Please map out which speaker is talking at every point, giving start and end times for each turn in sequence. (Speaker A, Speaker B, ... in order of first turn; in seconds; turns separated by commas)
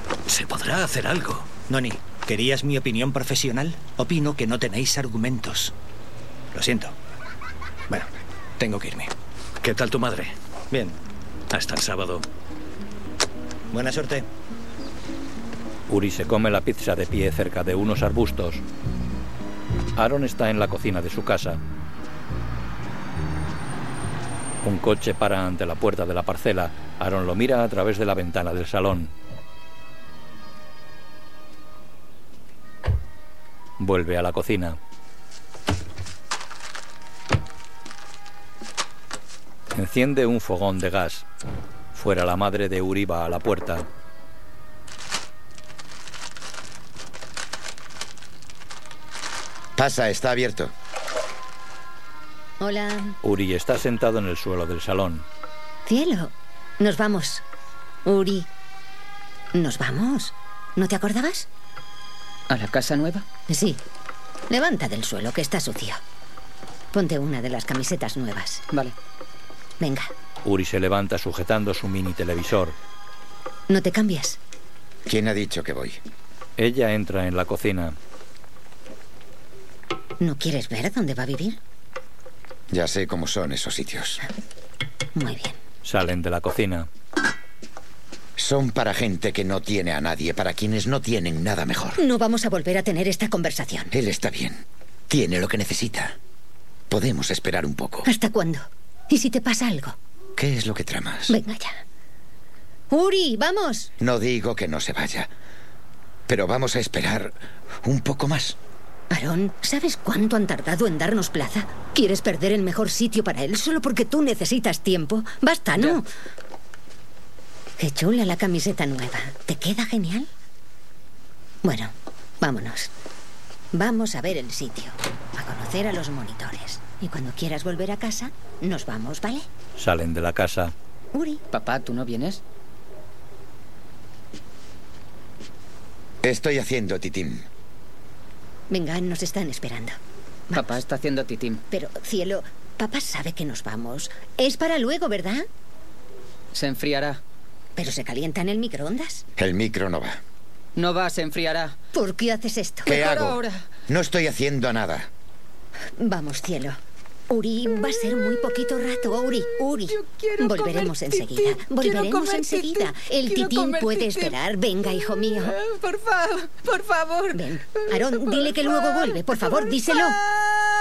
Speaker A: 0.3-1.5, Speaker B: 1.7-5.7, Speaker B: 6.5-7.0, Speaker B: 7.9-9.1, Speaker A: 9.6-10.3, Speaker B: 10.7-11.0, Speaker A: 11.5-12.3, Speaker B: 13.7-14.3, Speaker C: 15.9-18.6, Speaker C: 20.0-21.6, Speaker C: 24.6-29.1, Speaker C: 33.8-34.8, Speaker C: 39.7-41.3, Speaker C: 41.9-43.9, Speaker D: 49.8-50.7, Speaker E: 52.6-53.2, Speaker C: 53.2-55.3, Speaker E: 55.9-57.4, Speaker E: 58.0-58.5, Speaker E: 59.5-61.5, Speaker F: 62.5-63.3, Speaker E: 63.5-63.8, Speaker E: 64.5-66.0, Speaker E: 66.9-68.6, Speaker E: 69.8-70.1, Speaker C: 70.5-72.8, Speaker E: 73.7-74.4, Speaker D: 75.1-76.0, Speaker C: 76.6-78.0, Speaker E: 80.2-81.6, Speaker D: 82.7-84.2, Speaker E: 85.2-85.6, Speaker C: 85.8-86.9, Speaker D: 88.4-92.0, Speaker E: 92.0-93.9, Speaker D: 93.9-96.2, Speaker D: 96.9-98.1, Speaker E: 98.0-100.0, Speaker D: 100.4-101.4, Speaker E: 101.3-101.8, Speaker E: 102.9-103.9, Speaker D: 104.0-105.3, Speaker D: 106.3-108.6, Speaker E: 109.1-116.1, Speaker F: 115.8-116.0, Speaker E: 117.8-120.3, Speaker E: 121.6-122.9, Speaker E: 123.7-129.5, Speaker C: 129.8-130.7, Speaker E: 131.1-131.4, Speaker F: 131.5-132.4, Speaker D: 136.2-137.5, Speaker E: 138.7-140.0, Speaker E: 140.5-140.8, Speaker F: 140.5-141.6, Speaker E: 141.7-145.5, Speaker F: 146.5-147.2, Speaker E: 147.8-149.2, Speaker D: 149.4-150.2, Speaker F: 150.8-151.8, Speaker E: 151.9-153.0, Speaker D: 152.9-155.1, Speaker F: 152.9-153.7, Speaker E: 156.0-156.8, Speaker E: 157.3-165.6, Speaker F: 159.9-164.3, Speaker F: 165.5-167.4, Speaker E: 167.3-170.2